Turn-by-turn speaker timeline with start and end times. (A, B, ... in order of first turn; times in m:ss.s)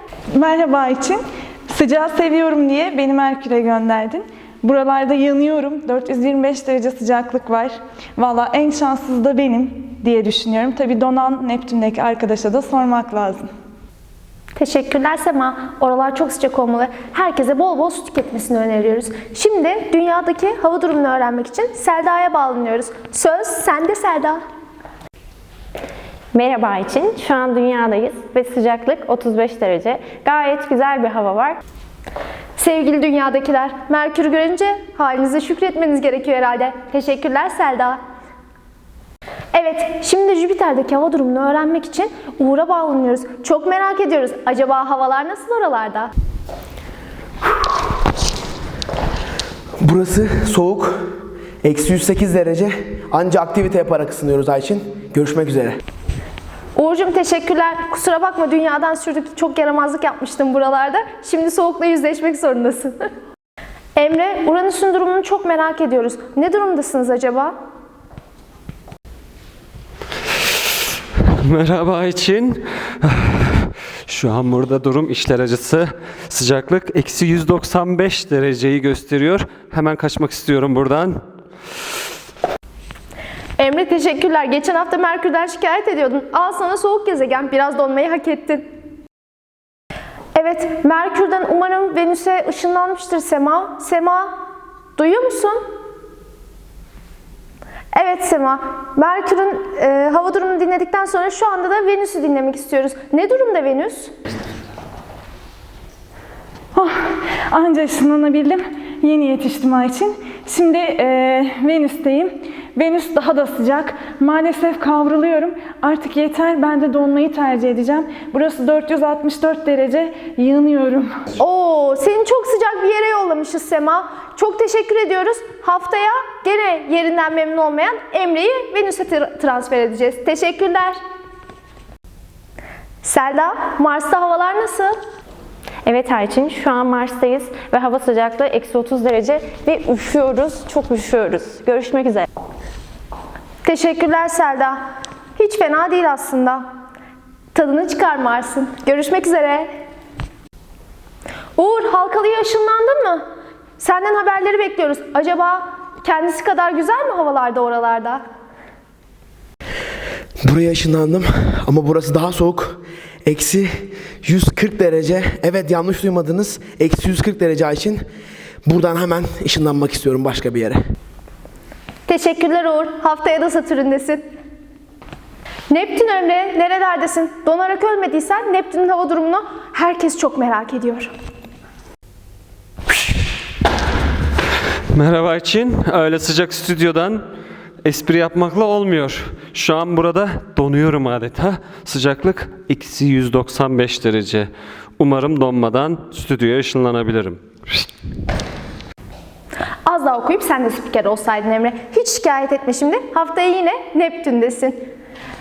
0:00.3-0:13.5 A
0:14.6-0:24.4 B
0:26.3-0:31.6 C
0:32.6-0:38.0 B
0:39.5-0:46.1 B
0:49.8-0:50.9 D
0:51.6-0:55.8 D
0:56.8-1:03.0 B
1:04.0-1:07.5 B
1:11.4-1:21.2 E
1:23.6-1:28.6 B
1:30.4-1:34.3 B
1:35.0-1:35.6 B
1:37.9-1:44.1 B
1:47.5-2:01.2 A
2:01.4-2:11.0 B
2:13.0-2:14.9 B
2:15.8-2:22.3 C
2:23.6-2:24.8 B
2:25.4-2:26.6 B
2:27.5-2:29.7 B
2:31.6-2:33.2 B
2:33.8-2:38.2 B
2:40.4-2:43.7 D
2:44.2-2:48.0 D
2:48.7-2:50.8 D
2:52.1-2:54.2 B
2:55.7-3:01.1 B
3:04.9-3:07.2 E
3:07.8-3:17.4 E
3:19.9-3:24.9 B